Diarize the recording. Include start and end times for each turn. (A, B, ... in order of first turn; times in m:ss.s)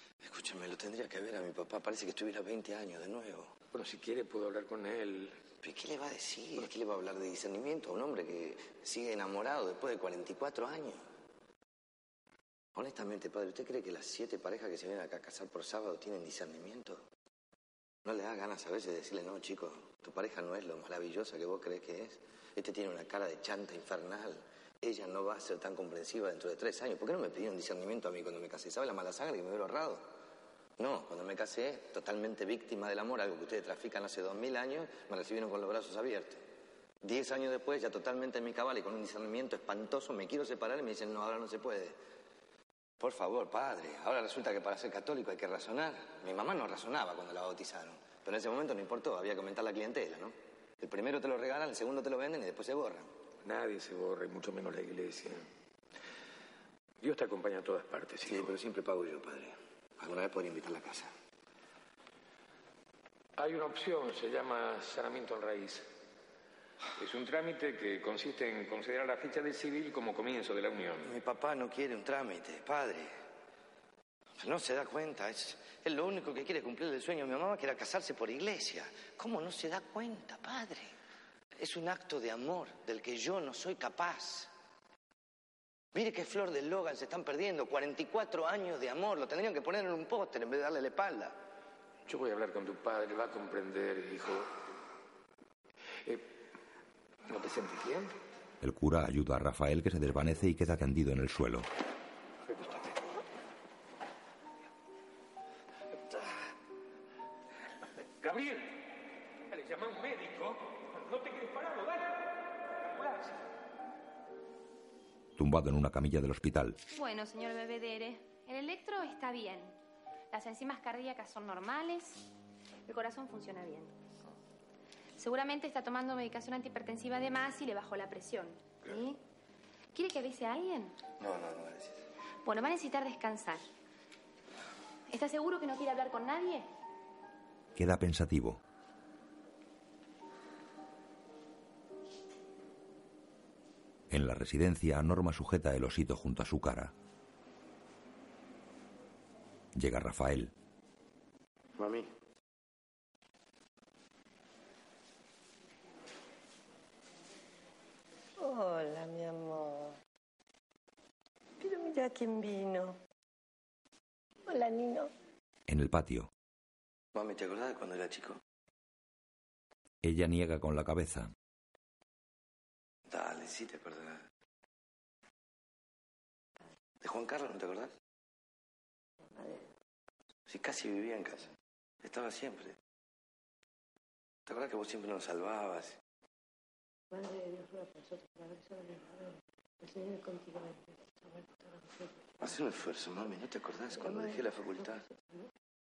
0:00.2-0:03.5 A
0:03.7-0:05.4 B
0:05.6-0:11.0 A
0:12.8-0:17.0 A
0:18.0-0:30.0 A
0:30.8-0:36.4 A
0:37.0-0:42.0 A
0:43.0-0:53.1 A
0:53.4-0:55.4 B
0:57.0-0:58.5 B
0:58.2-1:01.1 A
1:03.4-1:05.9 B
1:07.0-1:11.1 B
1:11.0-1:13.1 A
1:14.4-1:20.9 A
1:21.6-1:24.5 A
1:25.9-1:31.4 A
1:32.0-1:34.6 B
1:37.3-1:38.1 B
1:38.6-1:41.7 C
1:42.5-1:42.8 B
1:48.2-1:48.8 B
1:49.4-1:52.1 B
1:55.4-1:56.8 C
1:56.9-1:59.8 D
2:00.3-2:02.2 D
2:02.9-2:03.9 D
2:05.2-2:09.2 D
2:09.9-2:11.0 D
2:11.2-2:12.0 A
2:12.4-2:13.6 D
2:15.1-2:16.7 D
2:17.7-2:18.6 C
2:24.1-2:26.9 C
2:29.7-2:30.5 C
2:31.8-2:32.1 A
2:38.4-2:40.0 E
2:41.6-2:43.0 E
2:44.4-2:45.1 E
2:45.7-2:46.3 C
2:47.1-2:48.4 A
2:50.0-2:51.3 C
2:53.1-2:54.2 A
2:57.0-2:57.9 A
2:59.3-2:59.7 E
3:00.5-3:01.5 A
3:02.0-3:02.8 A
3:04.5-3:06.0 A
3:07.1-3:12.2 E
3:12.4-3:15.0 A
3:13.9-3:15.5 E